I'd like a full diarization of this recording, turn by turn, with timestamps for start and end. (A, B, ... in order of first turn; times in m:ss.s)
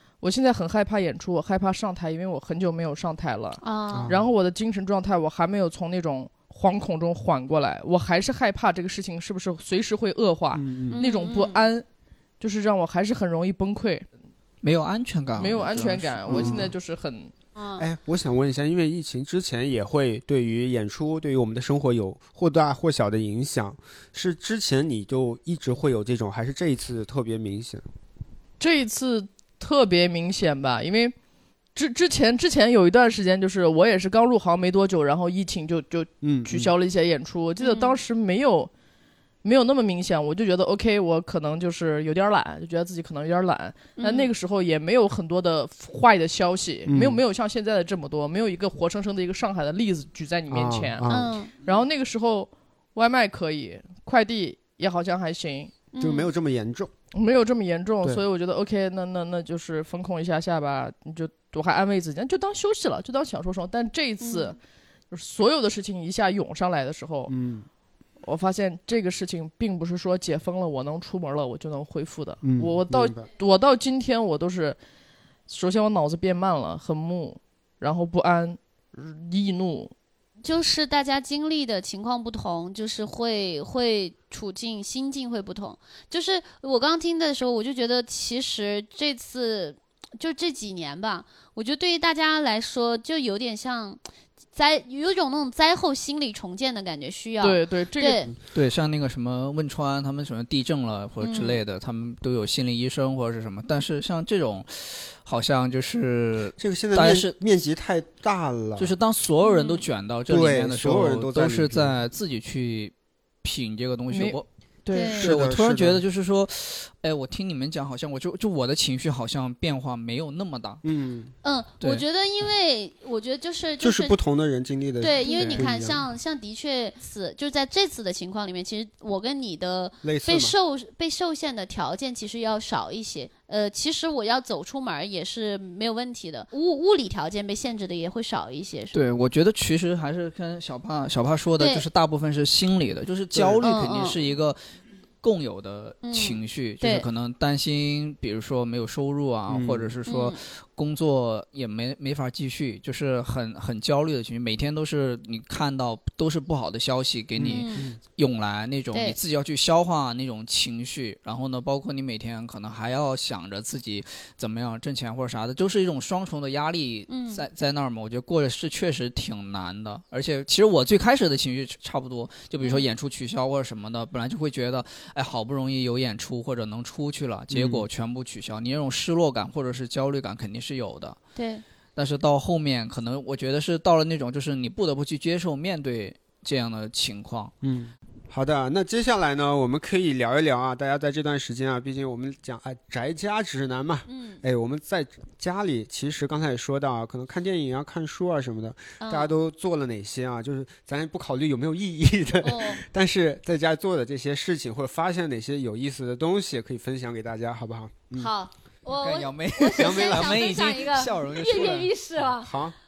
0:00.2-0:11.8 A
0:03.6-0:04.1 B
0:03.9-0:04.3 C
0:10.5-0:11.0 C
0:10.9-0:11.6 B
0:12.4-0:14.1 A
0:14.6-0:16.7 D
0:15.4-0:17.3 A
0:16.3-0:16.7 C
0:17.6-0:17.8 B
0:17.8-0:27.8 C
0:28.6-0:31.1 A
0:31.8-0:38.7 A
0:36.2-0:36.7 C
0:37.6-0:38.0 B
0:39.4-0:51.0 A
0:44.0-0:44.3 B
0:46.9-0:47.2 C
0:50.5-0:51.3 C
0:51.1-0:51.5 B
0:51.6-0:55.7 A
0:55.9-0:56.3 B
0:56.0-0:56.9 C
0:57.1-1:04.6 A
1:04.2-1:04.6 B
1:05.1-1:07.3 A
1:07.3-1:07.7 C
1:08.2-1:14.8 A
1:12.4-1:13.3 C
1:15.5-1:19.9 A
1:20.4-1:34.0 B
1:34.5-1:38.3 B
1:37.4-1:38.3 A
1:38.5-1:47.4 D
1:41.2-1:41.6 B
1:46.6-1:48.9 C
1:48.8-1:52.9 D
1:49.4-1:49.8 B
1:50.3-1:52.0 C
1:53.4-1:54.5 D
1:54.1-1:55.3 A
1:54.9-1:55.3 B
1:55.2-2:00.8 D
1:55.2-1:56.0 C
2:00.8-2:01.3 C
2:01.4-2:04.2 B
2:03.8-2:06.0 C
2:05.0-2:19.0 B
2:05.2-2:05.6 D
2:10.0-2:10.5 C
2:18.9-2:24.6 D
2:21.6-2:21.9 B
2:23.3-2:23.7 C
2:23.6-2:24.2 B
2:25.2-3:01.2 D
2:26.0-2:27.1 B
2:29.5-2:29.9 C
2:30.1-2:30.4 B
2:37.4-2:38.0 C
2:37.5-2:37.9 B
2:47.1-2:47.4 B
2:52.6-2:52.9 B
2:57.5-2:57.9 C
3:01.4-3:01.6 B
3:02.0-3:07.5 D
3:07.6-3:28.3 C
3:14.1-3:14.4 B
3:19.0-3:19.3 B
3:22.4-3:22.8 B
3:28.2-3:32.5 B
3:29.0-3:31.9 D
3:29.8-3:30.5 C
3:32.4-3:32.8 C